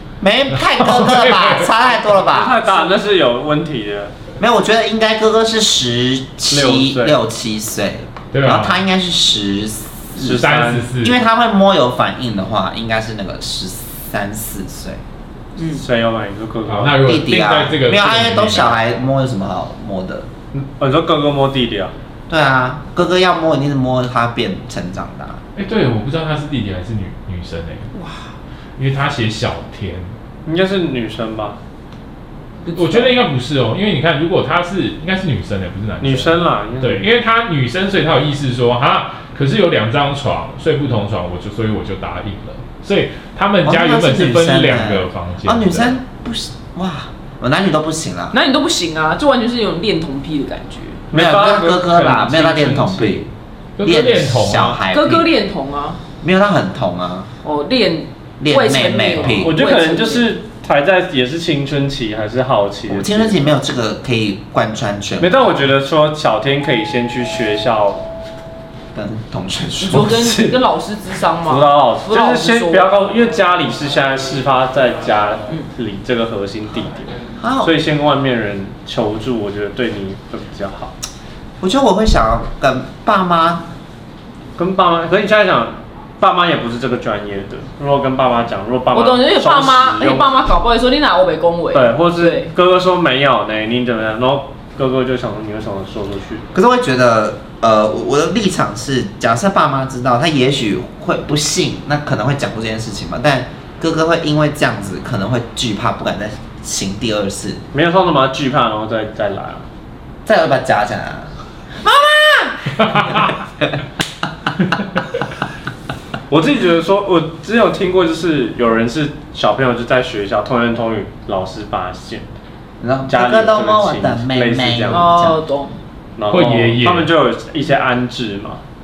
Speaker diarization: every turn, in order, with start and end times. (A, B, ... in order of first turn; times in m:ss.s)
0:00.2-0:02.6 A
0:00.5-0:01.7 B
0:02.1-0:04.1 C
0:02.6-0:03.0 D
0:04.4-0:10.4 A
0:06.5-0:07.2 C
0:08.3-0:08.8 B
0:10.2-0:10.9 C
0:10.2-0:11.1 B
0:10.9-0:15.0 A
0:15.8-0:17.1 C
0:16.7-0:18.8 B
0:17.0-0:20.3 A
0:20.5-0:21.9 C
0:22.3-0:25.4 A
0:25.6-0:27.9 B
0:27.9-0:28.2 D
0:28.8-0:30.1 B
0:30.4-0:31.6 C
0:32.6-0:33.2 D
0:32.7-0:46.0 B
0:36.0-0:37.1 C
0:43.6-0:48.3 A
0:48.3-0:51.0 D
0:51.1-0:53.1 C
0:51.1-0:53.3 A
0:53.8-0:54.8 B
0:53.8-0:55.3 A
0:54.9-0:56.0 D
0:56.2-0:57.3 A
0:57.4-1:00.3 D
0:58.4-0:59.6 A
0:59.4-1:03.4 C
1:02.9-1:05.3 A
1:05.2-1:08.0 C
1:08.9-1:10.2 A
1:09.8-1:12.9 D
1:10.1-1:10.7 C
1:11.4-1:20.9 C
1:17.4-1:17.7 A
1:21.6-1:23.7 A
1:24.6-1:30.3 C
1:28.9-1:32.5 D
1:31.7-1:36.4 C
1:36.5-1:47.6 A
1:47.7-1:49.6 C
1:50.2-1:51.3 A
1:51.9-1:53.7 A
1:52.9-1:53.2 B
1:56.3-2:02.2 C
2:02.8-2:05.4 A
2:03.1-2:05.2 C
2:04.9-2:05.8 D
2:06.2-2:08.6 C
2:06.3-2:07.1 B